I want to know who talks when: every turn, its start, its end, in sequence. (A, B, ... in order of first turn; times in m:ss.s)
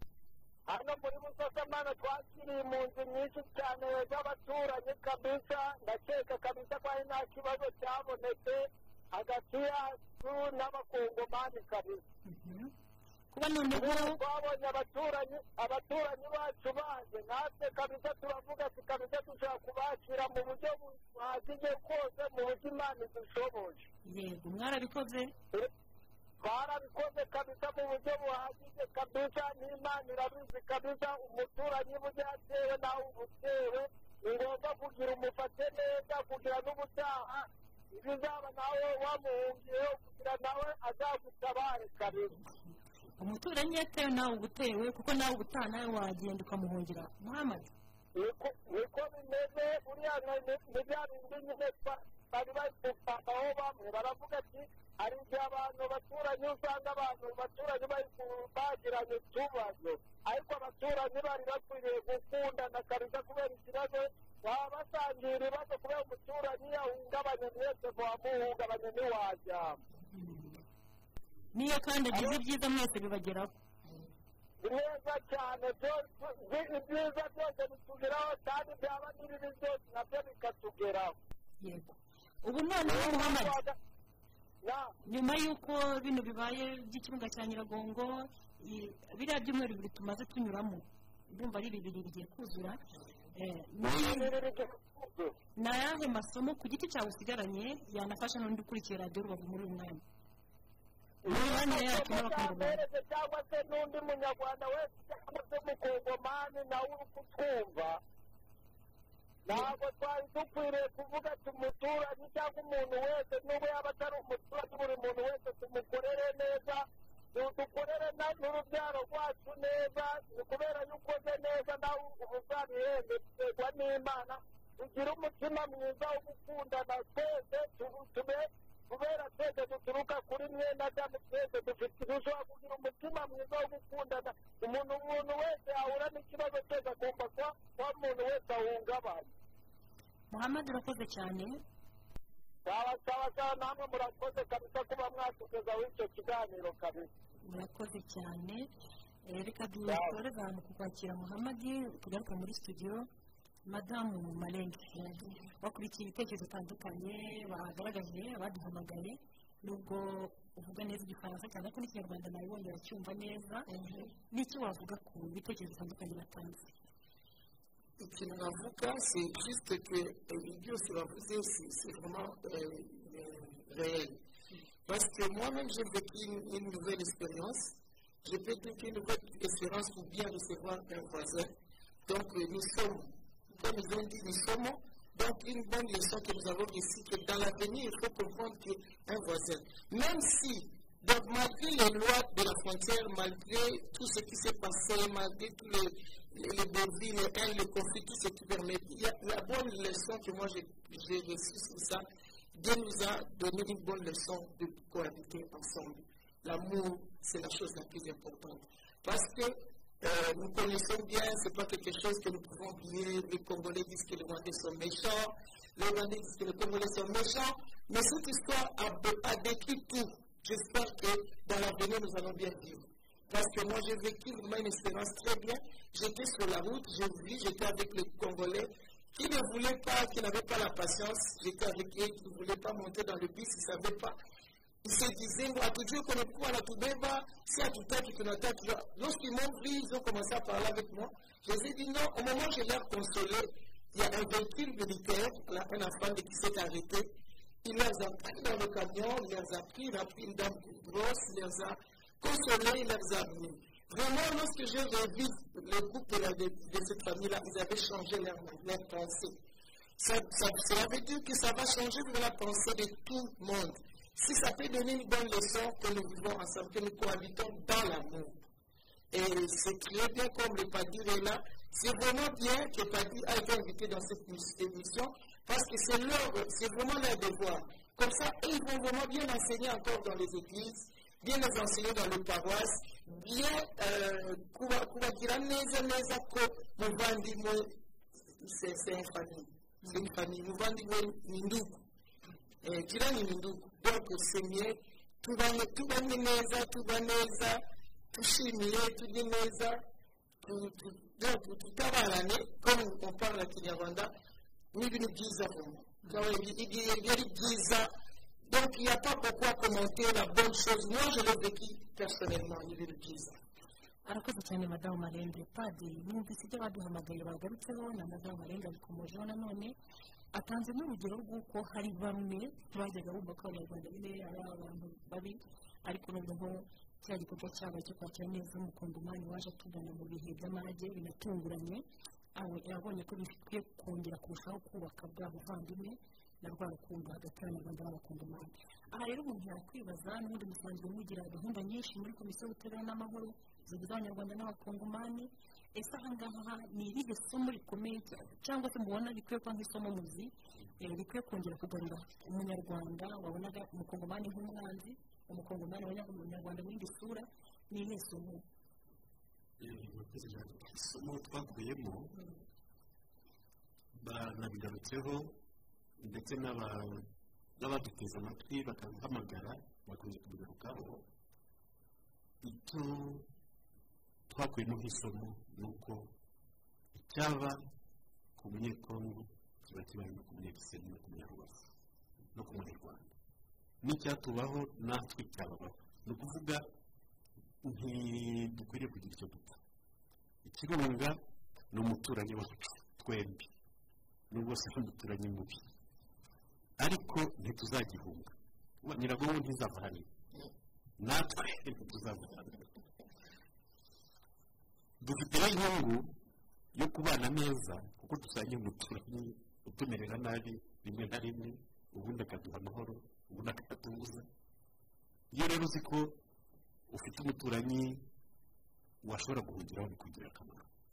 0:00.7-0:12.0 A
0:12.3-0:12.7 B
0:13.3-0:14.2 B
0:13.7-0:23.9 A
0:24.0-0:25.3 B
0:26.4-0:42.3 A
0:43.2-0:47.7 B
0:48.2-1:09.8 A
1:10.1-1:10.6 B
1:11.5-1:13.6 B
1:14.6-1:21.2 A
1:21.6-1:23.6 B
1:22.8-1:23.8 A
1:24.6-1:24.9 A
1:25.0-1:32.8 B
1:33.4-1:34.3 B
1:33.8-1:35.3 A
1:35.6-1:40.0 B
1:41.2-1:48.0 A
1:41.3-1:42.8 B
1:49.5-2:19.3 A
2:20.3-2:21.6 B
2:22.6-2:27.1 A
2:27.4-2:28.7 B
2:29.3-2:33.1 B
2:29.9-2:30.2 A
2:33.7-2:43.7 B
2:43.7-2:44.1 C
2:44.3-2:46.7 B
2:48.0-2:54.2 C
2:54.9-2:57.7 C
2:58.2-3:01.5 C
3:02.1-3:54.2 C
3:54.8-4:07.1 C
4:07.6-4:19.4 C
4:20.0-4:28.4 C
4:29.1-4:47.7 C
4:48.4-4:51.8 C
4:52.6-4:59.8 C
5:00.4-5:04.1 C
5:04.7-5:07.9 C
5:08.5-5:13.4 C
5:14.0-5:19.8 B
5:20.3-5:58.4 B
5:59.6-6:02.1 D
6:04.0-6:05.4 D
6:06.0-6:07.1 D
6:07.6-6:11.0 D
6:12.4-6:13.3 D
6:14.3-6:16.1 D
6:17.0-6:17.6 D
6:18.4-6:21.7 D
6:22.3-6:23.1 D
6:23.8-6:26.6 D
6:27.6-6:29.6 D
6:30.4-6:31.2 D
6:31.7-6:33.5 D
6:34.3-6:35.7 D
6:36.8-6:40.1 D
6:41.0-6:42.7 D
6:45.0-6:46.1 D
6:46.7-6:54.3 D
6:55.3-6:56.2 D
6:56.9-6:58.0 D
6:59.0-7:00.7 D